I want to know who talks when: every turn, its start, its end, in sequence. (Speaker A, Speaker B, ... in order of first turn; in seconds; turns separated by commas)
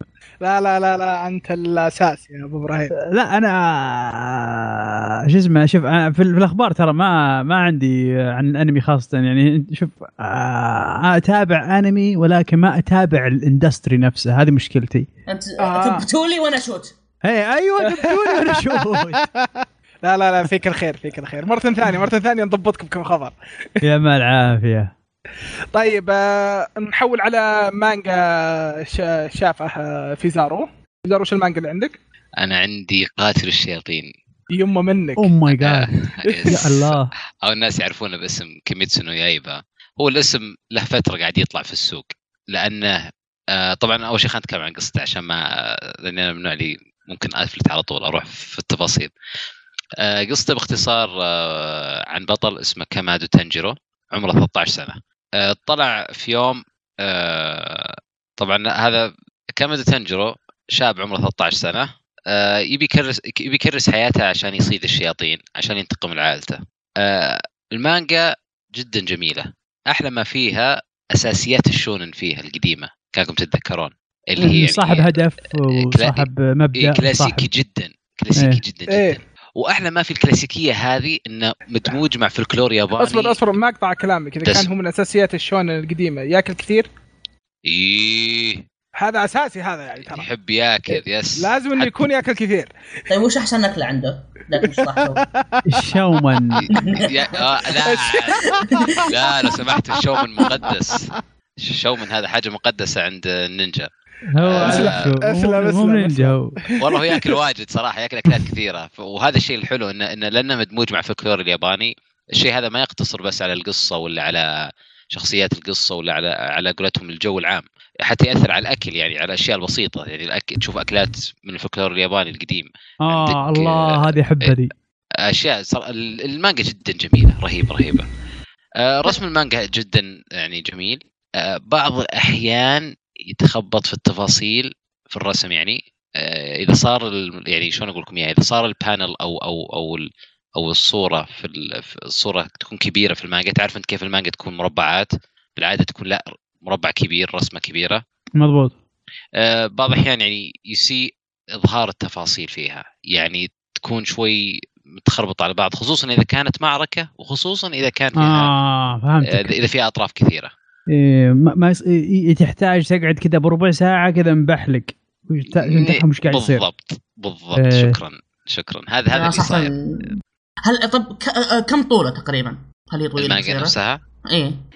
Speaker A: 0.4-2.9, Speaker B: 2.9-15.1, Speaker C: 15.3-16.9, Speaker A: 15.6-16.0, Speaker B: 17.2-19.2, Speaker A: 17.8-23.8, Speaker B: 23.8-24.9, Speaker A: 25.7-32.0, Speaker D: 32.4-34.1, Speaker A: 34.5-35.3, Speaker B: 35.2-35.9, Speaker D: 35.5-43.0, Speaker A: 36.2-36.6, Speaker B: 36.5-37.1, Speaker D: 43.5-49.1, Speaker D: 50.0-83.4, Speaker B: 74.4-77.5, Speaker B: 78.3-78.6, Speaker A: 78.9-79.2, Speaker A: 83.0-86.9, Speaker D: 84.4-84.7, Speaker D: 87.7-88.6, Speaker A: 88.9-90.3, Speaker D: 90.0-92.1, Speaker A: 91.4-92.7, Speaker C: 93.1-95.2, Speaker A: 94.6-96.4, Speaker B: 95.6-96.6, Speaker D: 96.7-103.9, Speaker C: 96.7-97.8, Speaker A: 97.8-100.7, Speaker C: 98.4-99.1, Speaker B: 104.3-106.5, Speaker D: 104.4-105.1, Speaker A: 104.6-107.3, Speaker D: 106.8-124.5, Speaker B: 123.0-124.7, Speaker D: 125.2-128.1, Speaker D: 128.8-140.0, Speaker D: 140.6-148.0, Speaker B: 148.4-148.7, Speaker D: 149.4-158.5, Speaker B: 158.2-159.5, Speaker D: 159.2-160.5, Speaker B: 160.9-166.6, Speaker D: 165.6-169.7, Speaker B: 167.6-168.0, Speaker C: 169.1-170.1, Speaker C: 170.6-173.7, Speaker D: 173.2-174.0, Speaker C: 174.3-174.6